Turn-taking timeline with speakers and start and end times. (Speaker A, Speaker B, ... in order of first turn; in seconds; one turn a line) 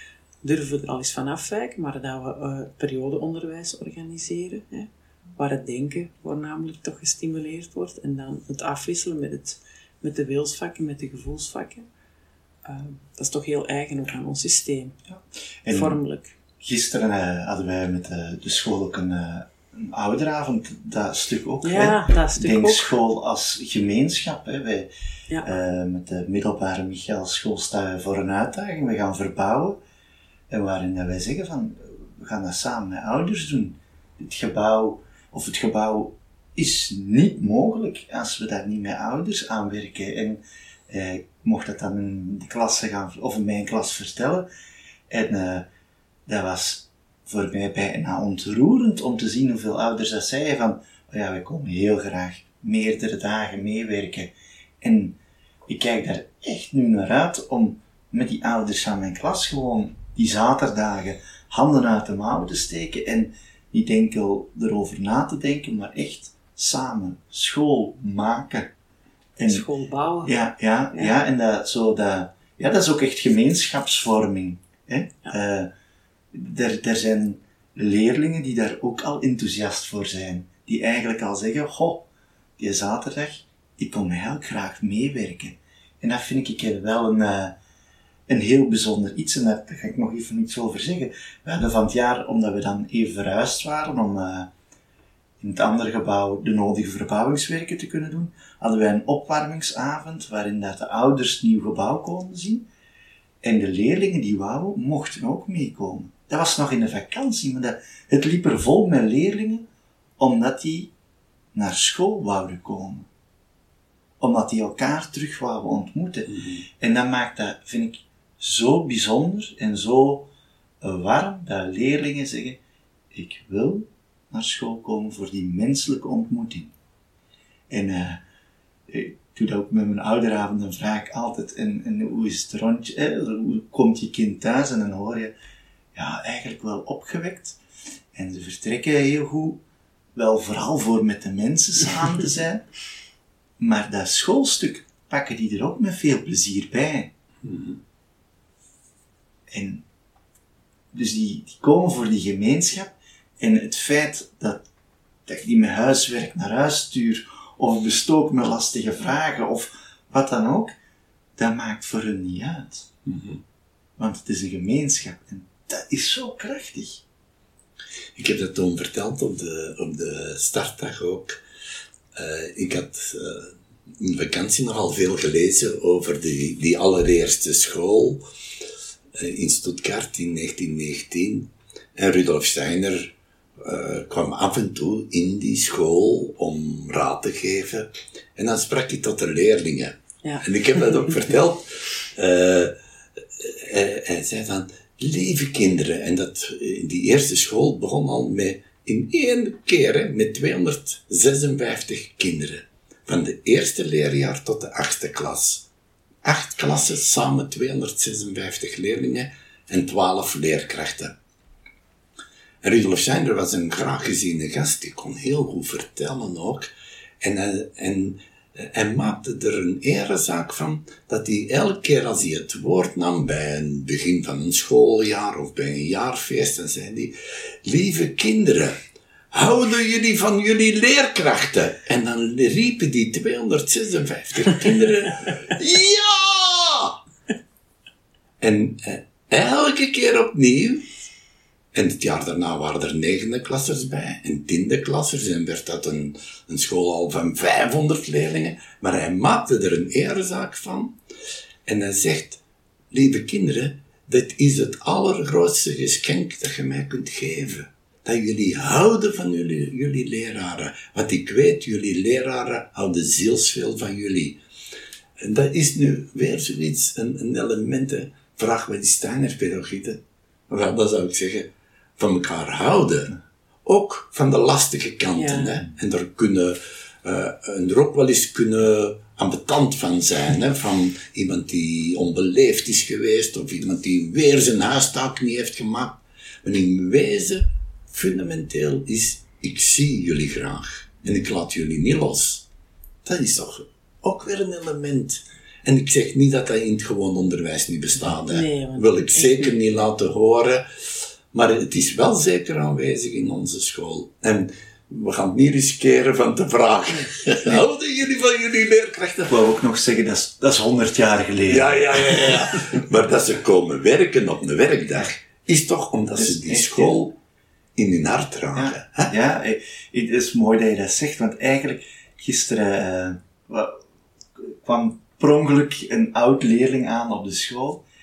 Speaker A: 0.4-11.9
Speaker A: 12.7-15.0
Speaker B: 15.1-16.0
Speaker A: 15.7-16.4
Speaker B: 16.6-24.9
Speaker A: 21.6-22.9
Speaker B: 25.4-29.8
Speaker B: 30.5-44.5
Speaker B: 45.1-45.7
Speaker B: 46.3-68.7
Speaker B: 69.4-69.7
Speaker A: 69.5-70.3
Speaker B: 70.2-75.7
Speaker B: 76.3-87.6
Speaker B: 88.3-94.5
Speaker B: 95.4-102.7
Speaker B: 103.4-109.7
Speaker B: 110.2-110.9
Speaker B: 111.5-113.1
Speaker B: 114.2-120.3
Speaker C: 116.3-116.7
Speaker B: 120.8-122.6
Speaker B: 123.1-126.7
Speaker B: 127.7-128.2
Speaker B: 128.9-135.3
Speaker B: 135.9-137.6
Speaker B: 138.1-139.6
Speaker B: 140.2-142.7
Speaker B: 143.6-147.1
Speaker C: 147.4-147.8
Speaker B: 149.5-149.9
Speaker B: 150.9-154.7
Speaker B: 155.3-160.7
Speaker B: 161.4-162.9
Speaker C: 163.1-163.4
Speaker B: 164.0-167.0
Speaker C: 168.2-171.4
Speaker C: 172.1-178.2
Speaker C: 179.2-192.8
Speaker A: 190.2-190.8
Speaker C: 193.4-205.7
Speaker C: 206.2-211.2
Speaker C: 212.6-216.7
Speaker C: 217.2-228.8
Speaker C: 229.3-237.0
Speaker C: 238.4-240.9
Speaker C: 241.7-251.0
Speaker C: 251.7-252.4
Speaker C: 252.9-264.4
Speaker C: 265.2-292.5
Speaker A: 275.1-275.5
Speaker C: 293.1-309.4
Speaker A: 298.3-299.6
Speaker B: 309.3-312.6
Speaker C: 311.5-317.2
Speaker B: 316.1-317.0
Speaker C: 317.8-319.1
Speaker B: 318.6-323.8
Speaker B: 324.4-327.9